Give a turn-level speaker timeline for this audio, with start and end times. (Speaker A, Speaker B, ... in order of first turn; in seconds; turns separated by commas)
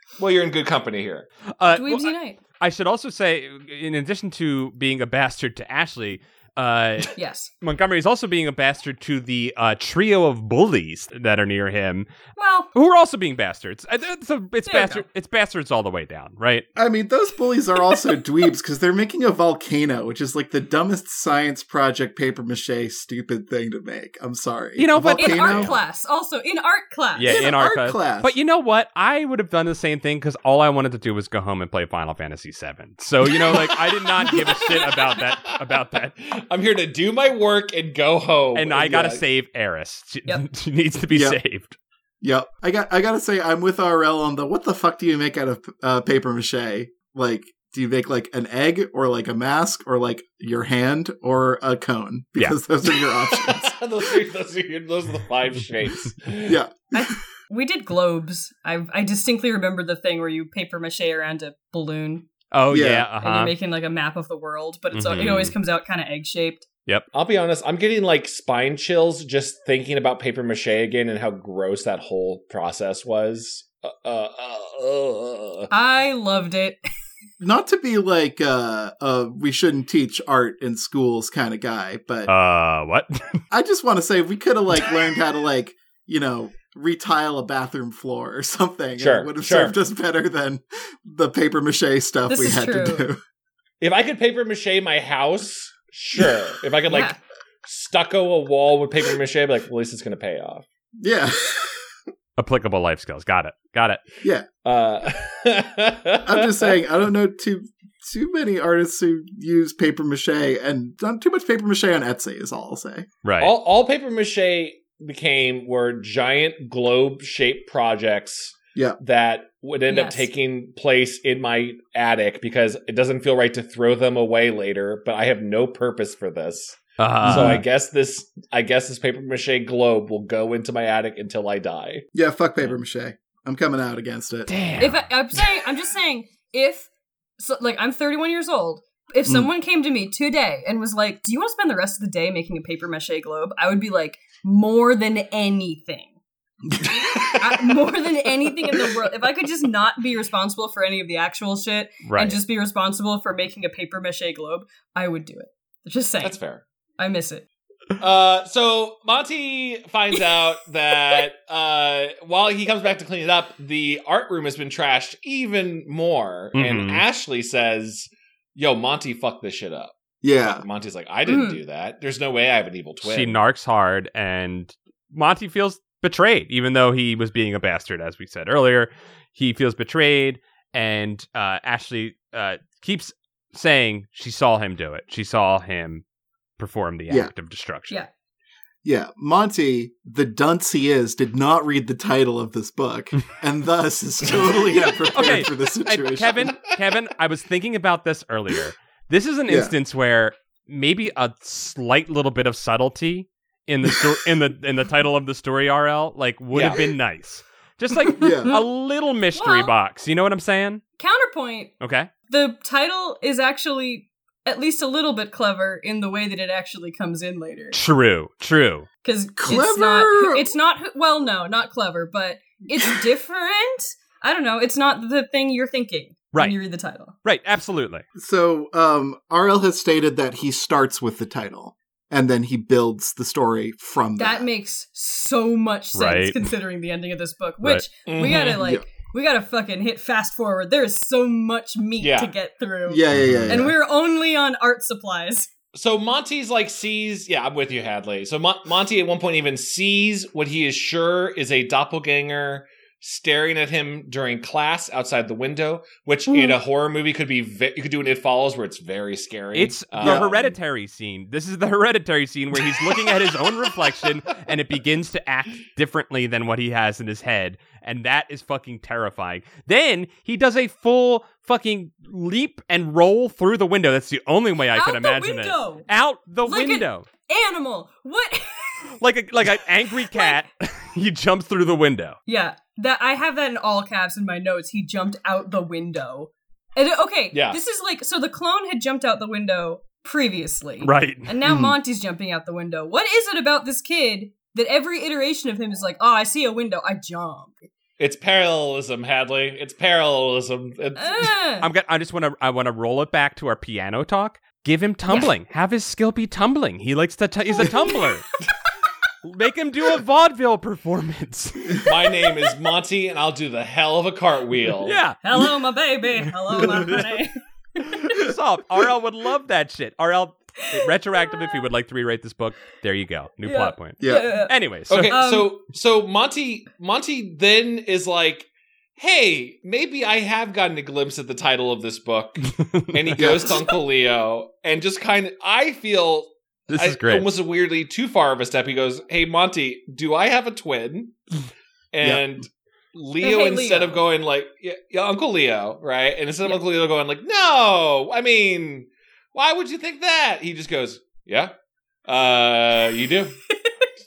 Speaker A: 0.2-1.3, Speaker B: 1.6-12.1, Speaker C: 1.7-2.4, Speaker C: 7.2-7.5, Speaker C: 12.4-12.7, Speaker B: 12.7-16.7, Speaker C: 14.7-15.0, Speaker D: 16.8-25.7, Speaker B: 24.8-25.8, Speaker C: 25.2-27.4, Speaker B: 27.2-36.2, Speaker D: 27.2-28.3, Speaker A: 33.5-39.2, Speaker C: 34.3-35.1, Speaker B: 38.5-41.8, Speaker D: 41.1-41.4, Speaker D: 42.2-53.8, Speaker A: 53.0-56.5, Speaker D: 56.4-57.1, Speaker C: 56.9-62.3, Speaker B: 62.5-63.5, Speaker D: 62.7-63.1, Speaker C: 63.2-66.7, Speaker B: 64.9-65.5, Speaker A: 67.1-75.7, Speaker C: 75.7-76.8, Speaker D: 77.4-82.3, Speaker B: 82.3-83.4, Speaker D: 83.5-93.2, Speaker A: 89.0-89.8, Speaker C: 92.3-93.1, Speaker A: 93.8-100.7, Speaker C: 96.9-97.2, Speaker D: 101.0-101.8, Speaker B: 102.4-104.0, Speaker A: 104.7-106.8, Speaker D: 106.2-113.1, Speaker B: 113.2-113.5, Speaker A: 113.4-132.1, Speaker C: 119.9-120.3, Speaker B: 127.0-127.6, Speaker D: 127.2-127.6, Speaker D: 132.1-134.6, Speaker B: 134.5-135.1, Speaker C: 134.8-146.1, Speaker D: 146.7-147.3, Speaker C: 147.1-156.4, Speaker B: 152.0-152.4, Speaker A: 156.2-156.6, Speaker C: 157.0-157.5, Speaker A: 158.0-173.4, Speaker B: 166.6-167.0, Speaker D: 170.2-170.7, Speaker C: 171.3-171.6, Speaker B: 173.0-186.0, Speaker B: 186.6-188.0, Speaker D: 188.8-196.6, Speaker B: 195.1-210.8, Speaker D: 199.5-199.8, Speaker A: 206.5-206.9, Speaker D: 208.1-208.6, Speaker C: 209.3-209.7, Speaker C: 211.0-211.7, Speaker B: 211.8-212.1, Speaker C: 212.3-217.8, Speaker B: 217.7-218.9, Speaker C: 219.0-227.2, Speaker D: 219.4-220.5, Speaker B: 227.2-228.1, Speaker D: 228.2-234.5, Speaker C: 234.2-245.5, Speaker B: 235.9-236.4, Speaker A: 238.1-238.6, Speaker D: 238.6-238.8, Speaker A: 242.0-242.3, Speaker D: 242.9-243.7, Speaker B: 243.2-243.6, Speaker A: 245.7-260.6, Speaker C: 256.3-256.6, Speaker B: 259.5-277.1, Speaker D: 260.0-260.3, Speaker C: 274.7-275.9, Speaker C: 276.4-278.9, Speaker B: 279.0-282.2, Speaker C: 280.1-280.4, Speaker C: 282.3-297.5, Speaker A: 287.3-287.6, Speaker B: 290.8-291.3, Speaker D: 291.4-291.8, Speaker A: 298.0-301.3, Speaker C: 301.0-301.7, Speaker B: 301.6-308.3, Speaker C: 307.6-308.1, Speaker B: 309.2-311.9, Speaker A: 311.8-315.0, Speaker B: 314.8-315.2, Speaker C: 315.2-318.2, Speaker B: 316.5-317.1, Speaker B: 317.8-325.2, Speaker C: 320.6-321.4, Speaker C: 323.4-324.6, Speaker D: 324.0-324.4, Speaker A: 324.9-341.1, Speaker C: 325.1-325.6, Speaker B: 332.6-333.3, Speaker D: 333.2-333.6, Speaker B: 336.7-337.3, Speaker A: 341.9-351.5, Speaker C: 343.2-344.0, Speaker A: 352.1-353.4, Speaker C: 353.5-353.9